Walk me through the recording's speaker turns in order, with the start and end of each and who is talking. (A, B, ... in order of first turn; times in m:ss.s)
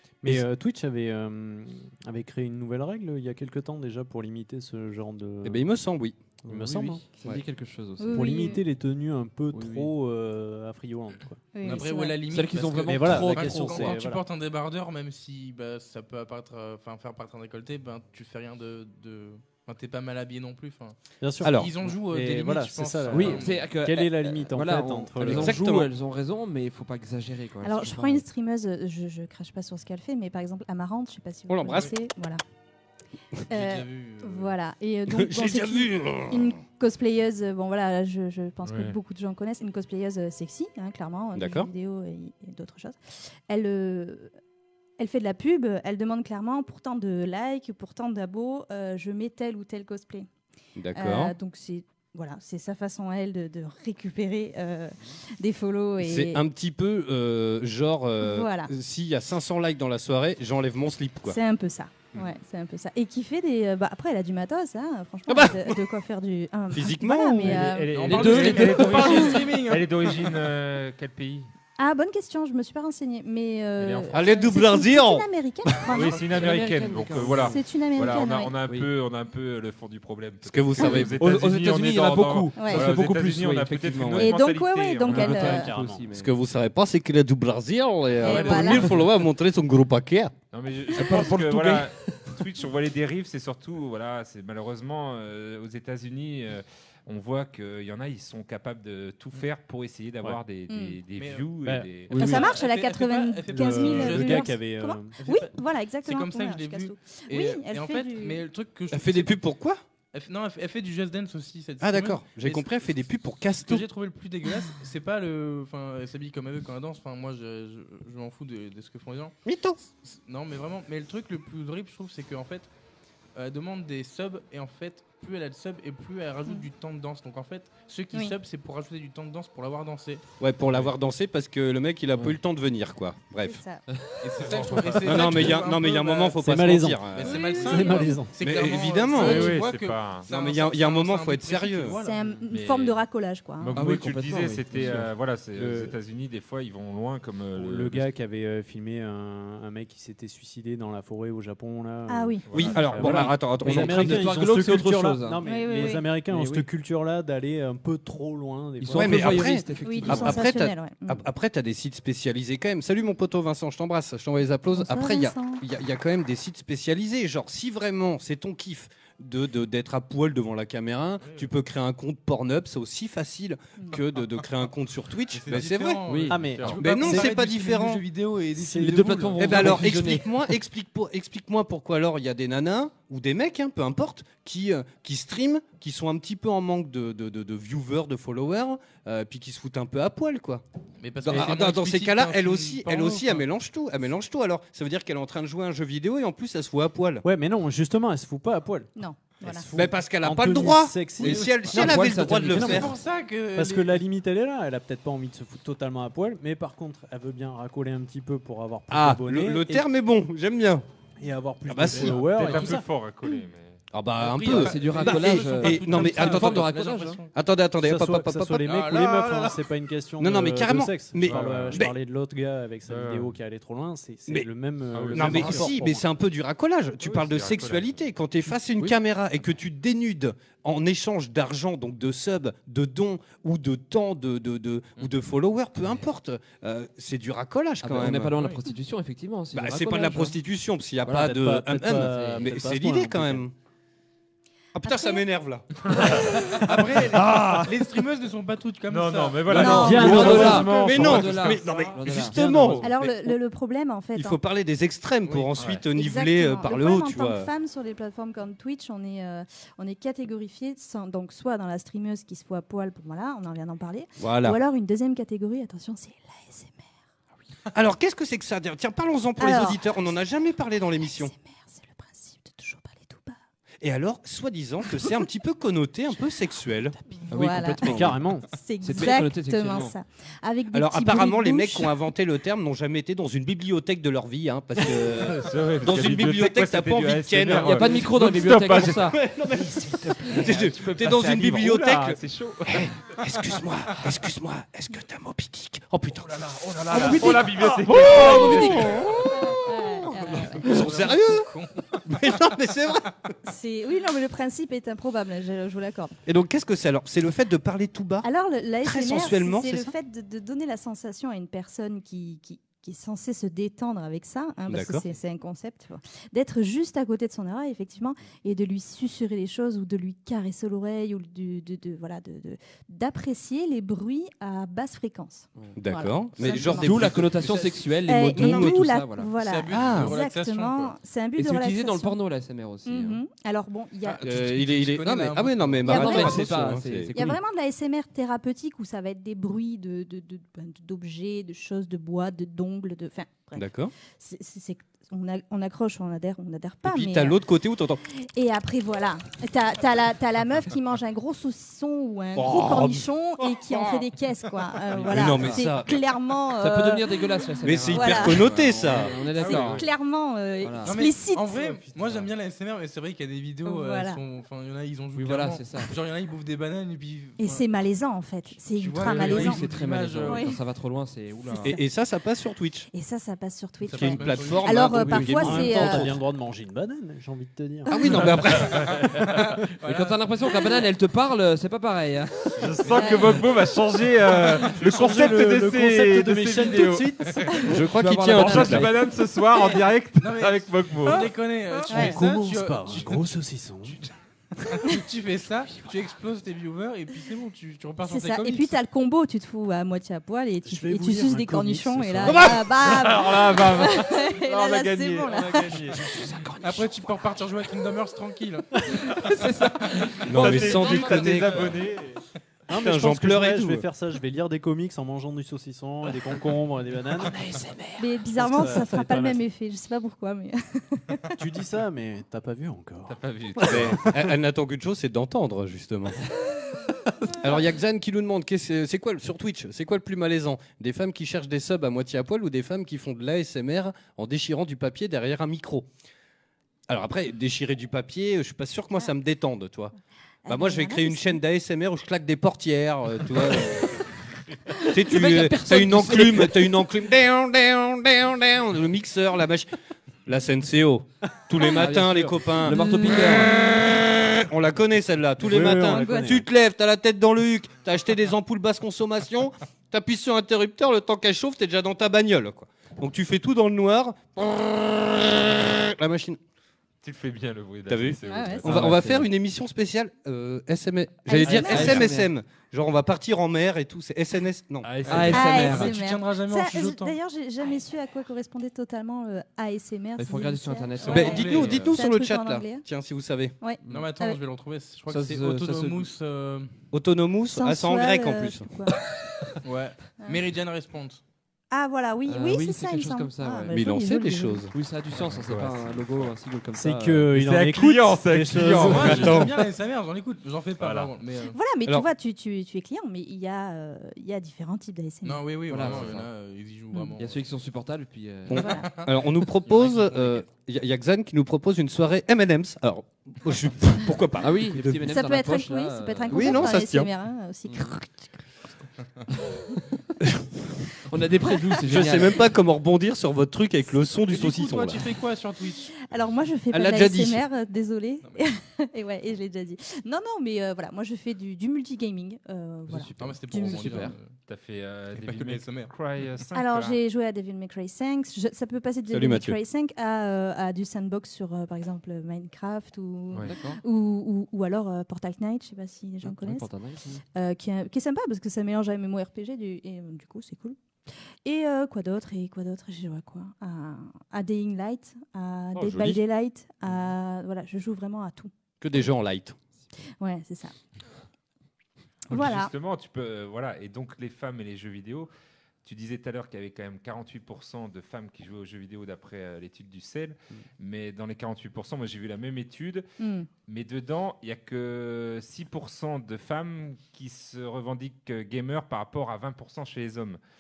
0:00.2-0:05.7 A
0:05.4-0:06.2 B
0:06.4-0:07.0 A
0:06.5-0:08.5 C
0:08.0-0:08.6 D
0:08.1-0:11.5 A
0:09.5-0:09.9 C
0:11.5-0:12.2 D
0:11.6-0:23.7 E
0:12.3-0:14.0 C
0:12.9-0:14.2 A
0:21.2-0:25.6 A
0:21.4-0:21.7 B
0:23.1-0:28.2 C
0:25.2-0:25.9 B
0:27.6-0:32.4 D
0:31.5-0:31.9 B
0:31.7-0:31.9 E
0:33.5-0:34.6 E
0:33.5-0:44.3 D
0:35.1-0:36.6 B
0:38.6-0:39.0 F
0:41.3-0:41.7 B
0:45.0-0:50.3 D
0:50.8-0:51.4 B
0:50.9-0:56.4 D
0:56.0-1:01.4 B
0:58.2-0:58.7 D
1:01.3-1:08.5 D
1:05.3-1:05.8 B
1:06.7-1:07.7 B
1:07.4-1:11.5 F
1:07.9-1:09.9 E
1:08.1-1:09.0 C
1:09.0-1:09.3 D
1:11.8-1:16.5 D
1:13.8-1:14.3 F
1:14.1-1:15.9 B
1:15.9-1:25.7 F
1:16.0-1:17.6 C
1:17.4-1:18.6 D
1:20.4-1:21.4 B
1:21.1-1:24.2 C
1:22.5-1:22.9 D
1:22.9-1:24.3 B
1:24.2-1:25.7 D
1:25.1-1:26.0 A
1:25.1-1:26.4 C
1:26.1-1:30.3 B
1:28.2-1:29.0 D
1:30.5-1:42.4 F
1:31.0-1:31.8 B
1:31.2-1:31.8 C
1:40.7-1:41.0 D
1:41.2-1:41.5 E
1:41.6-1:42.5 A
1:42.1-1:48.4 D
1:42.2-1:44.6 E
1:43.5-1:45.2 A
1:45.2-1:49.4 E
1:48.9-1:49.8 B
1:50.1-1:53.0 E
1:51.8-1:53.9 B
1:53.6-1:59.4 E
1:59.5-1:59.8 B
2:00.0-2:02.7 E
2:03.4-2:10.2 E
2:10.4-2:13.6 B
2:13.4-2:13.8 D
2:13.9-2:15.0 C
2:14.2-2:16.4 E
2:15.0-2:17.5 B
2:16.4-2:17.1 A
2:17.1-2:22.2 E
2:17.2-2:18.2 D
2:17.6-2:18.4 A
2:18.4-2:19.6 B
2:19.2-2:20.3 F
2:20.3-2:22.0 B
2:22.0-2:23.8 D
2:22.5-2:23.0 F
2:23.6-2:28.1 F
2:23.8-2:25.1 C
2:24.7-2:26.0 A
2:27.6-2:39.4 A
2:32.1-2:32.8 D
2:32.5-2:33.2 F
2:32.5-2:34.5 B
2:33.0-2:35.4 C
2:35.4-2:36.2 D
2:36.3-2:36.7 C
2:38.8-2:40.6 C
2:39.0-2:56.0 B
2:39.8-2:41.2 D
2:44.7-2:45.6 D
2:51.2-2:51.5 E
2:55.3-2:59.8 E
2:56.0-2:56.7 C
2:56.3-2:57.4 A
2:56.8-2:58.0 B
2:58.6-2:59.6 A
2:58.7-3:00.3 C
2:59.4-3:10.6 B
3:11.0-3:13.5 E
3:11.2-3:17.2 B
3:17.2-3:18.9 A
3:19.0-3:19.7 D
3:19.4-3:22.9 A
3:19.7-3:22.9 B
3:21.2-3:21.5 E
3:21.7-3:22.9 C
3:22.5-3:24.0 E
3:23.6-3:29.9 A
3:28.9-3:30.8 B
3:31.2-3:32.9 A
3:31.7-3:32.3 B
3:31.9-3:32.8 E
3:32.1-3:33.8 F
3:33.9-3:36.7 B
3:34.2-3:37.3 E
3:34.4-3:37.2 C
3:37.3-3:38.7 B
3:37.8-3:46.1 A
3:38.6-3:39.6 E
3:40.2-3:41.9 B
3:41.3-3:41.8 F
3:42.9-3:43.4 F
3:44.9-3:45.7 F
3:45.1-3:58.4 B
3:47.0-3:48.1 F
3:57.8-4:00.4 C
3:58.3-3:58.6 E
3:59.5-4:03.5 B
4:01.0-4:01.4 C
4:01.1-4:03.5 A
4:01.9-4:02.5 C
4:04.8-4:07.3 B
4:04.8-4:05.3 D
4:05.9-4:06.2 F
4:06.5-4:09.8 E
4:07.2-4:07.6 A
4:08.9-4:11.9 F
4:09.5-4:10.6 D
4:09.6-4:11.2 A
4:09.8-4:13.4 B
4:09.9-4:12.8 C
4:12.4-4:12.8 A
4:12.8-4:14.4 D
4:14.2-4:17.5 B
4:15.2-4:15.5 E
4:15.6-4:15.8 F
4:15.9-4:27.0 D
4:24.2-4:24.6 B
4:27.7-4:31.3 B
4:29.4-4:29.9 D
4:31.0-4:33.4 D
4:33.8-4:37.0 B
4:37.1-4:42.0 D
4:37.3-4:38.2 C
4:37.8-4:38.5 A
4:38.8-4:39.9 C
4:40.7-5:01.5 B
4:45.0-4:53.2 F
4:47.6-4:49.2 C
4:56.3-4:59.2 F
4:58.2-4:58.7 D
4:59.3-5:00.8 D
5:00.6-5:02.4 E
5:02.0-5:03.2 B
5:03.4-5:06.2 D
5:06.3-5:08.3 B
5:08.2-5:27.1 D
5:08.8-5:09.9 B
5:14.7-5:15.0 B
5:25.8-5:27.6 B
5:26.5-5:29.3 C
5:27.4-5:27.8 E
5:28.0-5:32.2 D
5:28.3-5:28.9 B
5:29.4-5:31.0 E
5:29.7-5:30.2 B
5:31.4-5:33.2 C
5:32.8-5:34.3 D
5:34.0-5:36.5 E
5:34.2-5:37.3 B
5:35.8-5:37.4 C
5:35.9-5:36.5 D
5:37.1-5:47.4 D
5:43.6-5:43.9 B
5:46.8-5:48.0 B
5:48.3-5:57.2 D
5:52.4-5:54.0 B
5:54.9-5:56.0 B
5:55.0-5:55.6 C
5:56.6-5:59.9 C
5:57.6-5:59.2 B
5:57.9-5:58.5 D
5:59.4-5:59.9 F
5:59.4-6:01.6 D
6:00.6-6:01.0 C
6:00.8-6:07.6 E
6:03.6-6:04.2 D
6:05.2-6:05.9 C
6:07.4-6:09.7 D
6:08.6-6:10.6 E
6:09.0-6:11.8 C
6:10.2-6:10.6 D
6:11.6-6:12.9 B
6:12.9-6:16.1 D
6:13.8-6:14.9 E
6:14.0-6:16.1 B
6:15.0-6:15.3 C
6:15.2-6:18.3 A
6:17.9-6:19.3 B
6:17.9-6:18.3 D
6:18.6-6:19.0 F
6:19.1-6:20.2 E
6:19.8-6:22.7 C
6:22.6-6:27.5 F
6:22.9-6:23.1 E
6:22.9-6:23.4 D
6:24.6-6:27.5 A
6:27.6-6:28.9 B
6:27.8-6:28.9 C
6:28.3-6:31.3 F
6:30.2-6:33.2 E
6:31.9-6:34.0 A
6:31.9-6:32.2 D
6:34.6-6:38.8 E
6:38.1-6:45.9 D
6:40.6-6:42.6 A
6:42.3-6:42.7 B
6:42.8-6:46.3 F
6:45.3-6:46.0 A
6:46.6-6:49.1 E
6:49.3-6:52.2 F
6:50.3-6:51.8 B
6:50.5-6:51.3 C
6:52.7-6:57.5 A
6:52.7-6:53.9 B
6:58.0-7:01.3 D
6:58.3-6:59.4 A
7:01.4-7:04.3 A
7:03.1-7:04.1 F
7:03.6-7:06.2 B
7:07.4-7:15.9 B
7:16.9-7:19.9 B
7:20.4-7:21.4 D
7:20.5-7:24.0 B
7:24.9-7:29.7 B
7:25.1-7:26.8 C
7:30.3-7:46.4 B
7:31.7-7:33.6 C
7:32.6-7:33.7 D
7:35.4-7:36.4 A
7:35.8-7:36.4 D
7:47.0-7:49.0 F
7:47.9-7:55.0 B
7:48.2-7:48.7 D
7:48.7-7:49.3 C
7:51.3-7:52.1 D
7:51.5-7:52.3 C
7:54.8-7:55.7 F
7:55.1-7:56.0 C
7:55.1-7:57.2 E
7:55.3-8:02.9 D
8:00.2-8:02.0 C
8:01.0-8:01.8 E
8:01.1-8:03.6 B
8:03.6-8:04.4 D
8:03.9-8:06.7 E
8:05.1-8:06.1 C
8:06.9-8:08.7 B
8:07.5-8:09.0 D
8:09.6-8:11.2 E
8:11.7-8:14.7 D
8:12.3-8:13.8 C
8:13.7-8:14.7 B
8:14.7-8:17.3 C
8:15.1-8:16.4 F
8:16.8-8:19.5 A
8:17.3-8:19.4 F
8:18.8-8:21.6 E
8:19.0-8:19.6 B
8:20.8-8:21.1 F
8:21.5-8:25.6 D
8:25.2-8:27.4 E
8:25.7-8:26.3 C
8:25.8-8:26.1 F
8:27.2-8:28.7 C
8:28.5-8:35.1 B
8:28.5-8:29.1 D
8:28.8-8:29.1 E
8:29.6-8:30.4 E
8:34.4-8:36.7 C
8:35.1-8:38.3 D
8:36.3-8:37.1 B
8:41.1-8:42.4 C
8:41.4-8:41.8 D
8:41.9-8:45.1 B
8:44.3-8:45.9 E
8:46.0-8:54.1 D
8:46.7-8:47.4 B
8:52.9-8:54.2 C
8:53.2-8:54.4 E
8:54.5-8:57.0 F
8:55.1-8:55.9 E
8:56.5-9:06.7 D
8:59.1-8:59.6 B
9:03.4-9:03.8 C
9:06.2-9:07.2 C
9:07.3-9:10.8 D
9:11.4-9:18.5 D
9:15.7-9:16.2 B
9:18.8-9:19.6 B
9:20.2-9:20.7 D
9:22.3-9:22.7 D
9:22.3-9:25.3 F
9:25.8-9:33.1 F
9:33.2-9:33.5 D
9:33.7-9:40.4 F